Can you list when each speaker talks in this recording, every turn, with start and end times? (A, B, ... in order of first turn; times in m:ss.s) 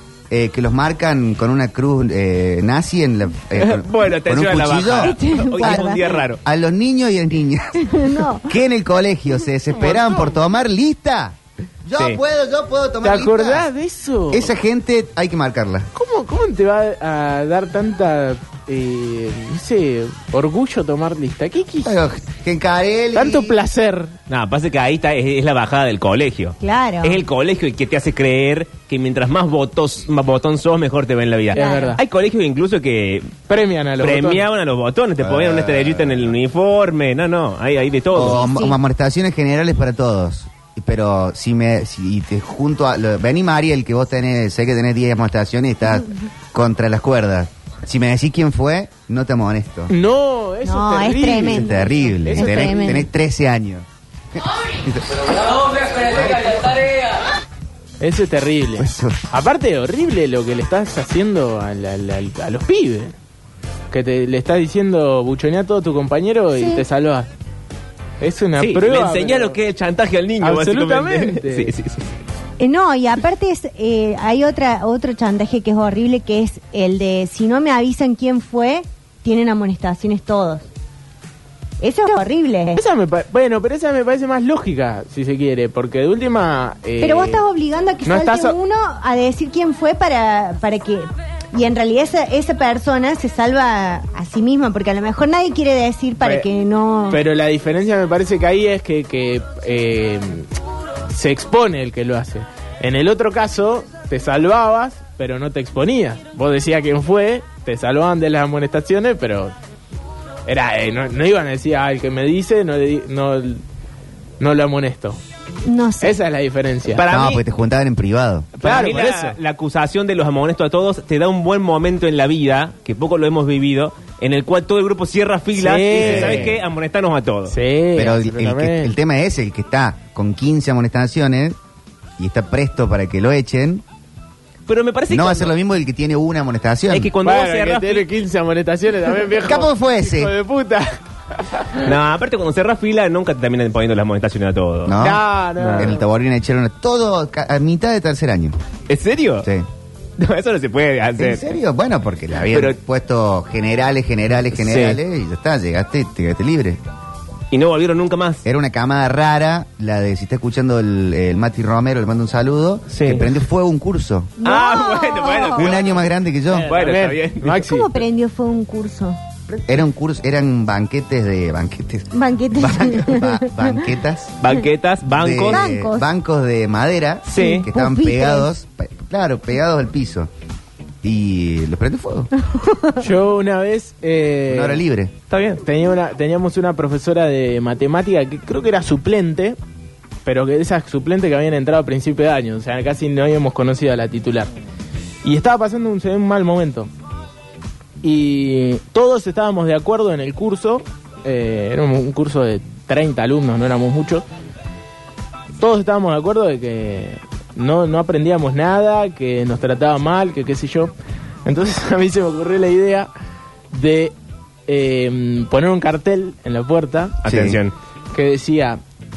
0:00.3-0:05.9 A
0:03.6-0:06.4 B
0:05.0-0:06.2 C
0:06.4-0:07.9 A
0:07.8-0:08.5 C
0:08.5-0:13.7 A
0:09.7-0:10.4 D
0:13.0-0:14.5 D
0:14.3-0:15.9 A
0:16.0-0:22.0 D
0:21.8-0:23.6 A
0:23.2-0:24.1 D
0:24.3-0:33.4 B
0:26.6-0:27.2 C
0:31.5-0:32.0 D
0:31.6-0:32.0 C
0:33.5-0:34.4 D
0:34.0-0:38.5 B
0:35.2-0:36.4 A
0:38.1-0:49.9 A
0:38.2-0:38.8 C
0:49.9-0:53.0 D
0:50.6-0:53.1 C
0:51.3-0:55.2 A
0:56.0-0:56.7 A
0:58.0-1:03.2 D
0:58.8-0:59.2 A
1:03.9-1:07.3 D
1:06.5-1:06.8 C
1:08.2-1:09.6 D
1:08.6-1:12.2 B
1:10.4-1:11.7 D
1:12.6-1:20.7 C
1:21.8-1:22.8 C
1:22.8-1:27.4 D
1:27.0-1:37.2 C
1:28.0-1:28.6 D
1:37.1-1:40.5 D
1:41.1-1:49.5 D
1:50.5-1:53.6 D
1:54.4-1:55.2 D
1:55.7-1:56.2 C
1:56.0-1:57.0 D
1:56.9-1:57.4 B
1:57.0-1:58.5 A
1:58.6-1:59.4 D
1:58.6-2:07.6 B
2:05.5-2:06.6 D
2:06.0-2:06.6 A
2:07.5-2:08.9 D
2:08.0-2:11.6 A
2:12.2-2:13.8 A
2:14.7-2:15.5 B
2:15.1-2:17.1 A
2:16.9-2:18.1 B
2:17.2-2:21.9 D
2:19.4-2:20.3 A
2:21.8-2:26.0 B
2:24.9-2:25.2 A
2:25.0-2:26.1 D
2:25.8-2:28.6 A
2:28.9-2:29.5 B
2:30.2-2:31.4 B
2:31.2-2:36.8 A
2:32.5-2:32.8 B
2:34.6-2:35.0 B
2:37.5-2:38.4 B
2:38.4-2:44.3 A
2:42.9-2:43.3 B
2:44.4-2:46.0 C
2:44.4-2:45.9 B
2:45.6-2:46.7 A
2:46.5-2:47.9 D
2:46.6-2:47.6 B
2:47.6-2:49.2 C
2:49.5-2:54.4 A
2:52.1-2:53.7 C
2:54.4-2:55.6 B
2:55.1-3:00.3 A
2:55.5-2:56.1 C
2:57.3-2:57.7 B
2:57.4-2:58.5 C
3:01.0-3:02.3 A
3:02.4-3:03.0 C
3:03.0-3:09.6 D
3:04.5-3:05.1 A
3:10.2-3:14.5 D
3:15.2-3:16.9 D
3:18.0-3:24.2 D
3:25.6-3:30.9 D
3:31.4-3:33.1 D
3:33.7-3:34.2 D
3:34.7-3:37.2 D
3:37.2-3:37.7 B
3:37.3-3:37.6 A
3:38.1-3:38.8 D